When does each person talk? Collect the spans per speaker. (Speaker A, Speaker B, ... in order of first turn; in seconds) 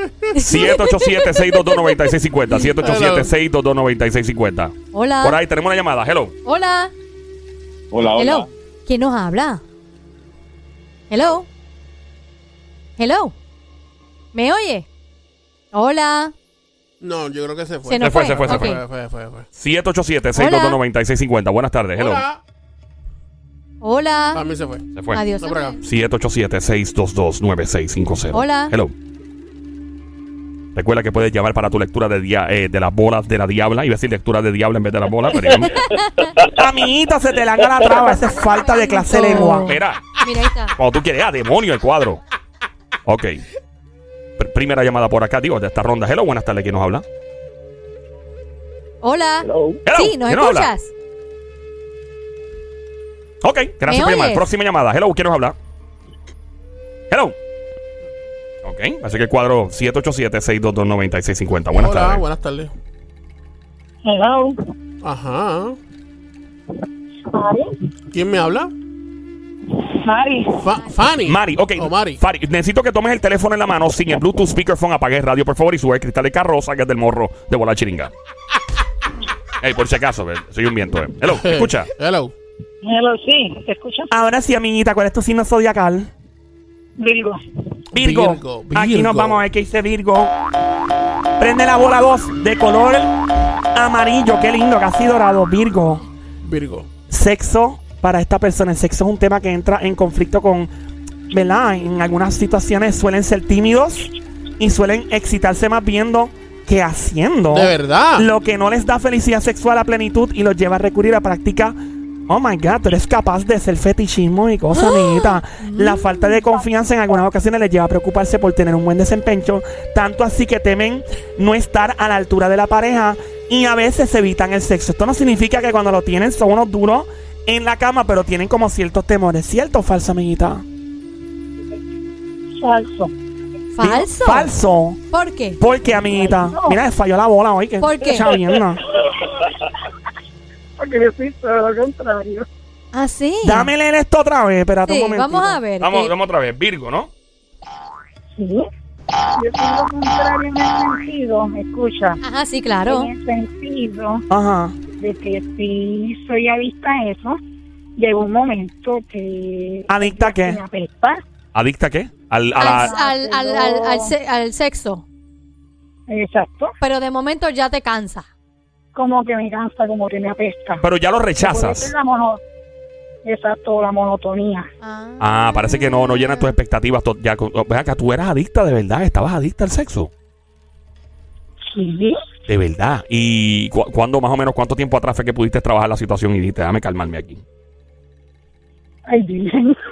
Speaker A: 0.3-2.6, 4.9-5.4, 6.4-6.9, 8.0-9.6, 11.1-11.5, 13.0-13.3, 14.3-14.8, 15.7-16.3, 17.8-18.8, 20.4-20.8, 23.8-24.4, 25.1-25.8, 28.3-28.7, 35.3-36.4, 37.9-40.8, 49.0-50.9, 53.9-54.5, 114.7-116.4, 133.7-134.5, 135.1-135.6, 137.8-138.3, 142.9-143.7, 144.9-146.1, 152.2-153.1, 162.6-165.0, 166.8-168.3, 174.8-176.5
Speaker B: 0.4-6.3, 18.0-18.8, 19.6-22.2, 25.0-25.2, 25.8-28.9, 30.7-35.8, 39.6-40.2, 40.8-42.2, 43.0-43.4, 44.4-47.0, 49.8-50.7, 53.4-55.5, 57.1-57.4, 58.6-62.2, 71.2-78.1, 79.6-81.9, 145.8-147.1, 161.5-162.9, 170.8-171.9, 175.2-180.1, 182.5-187.4
Speaker C: 2.8-3.3, 17.0-19.4, 21.9-22.4, 24.3-24.9, 25.4-25.8, 61.7-62.7, 65.0-65.8, 68.1-68.7, 70.6-72.2, 81.4-82.3, 88.0-89.4, 96.4-96.9, 107.5-108.3
Speaker D: 36.5-39.7, 84.1-86.1, 87.9-90.3, 91.4-93.1, 93.7-96.0, 97.1-100.7, 101.3-111.8, 112.3-130.6, 133.8-135.0, 135.6-138.8, 143.4-145.6, 154.3-154.8, 159.9-160.6
Speaker E: 64.0-64.5, 67.3-67.7, 70.0-70.6, 82.8-84.1, 87.0-87.4, 132.6-133.1, 136.0-136.8, 140.8-142.4, 148.3-148.7, 149.4-152.2, 152.8-154.2, 155.0-157.4, 158.0-161.2, 162.7-164.1, 166.1-166.7, 168.9-170.8, 171.4-172.4, 173.2-174.7, 181.7-182.2, 189.1-189.8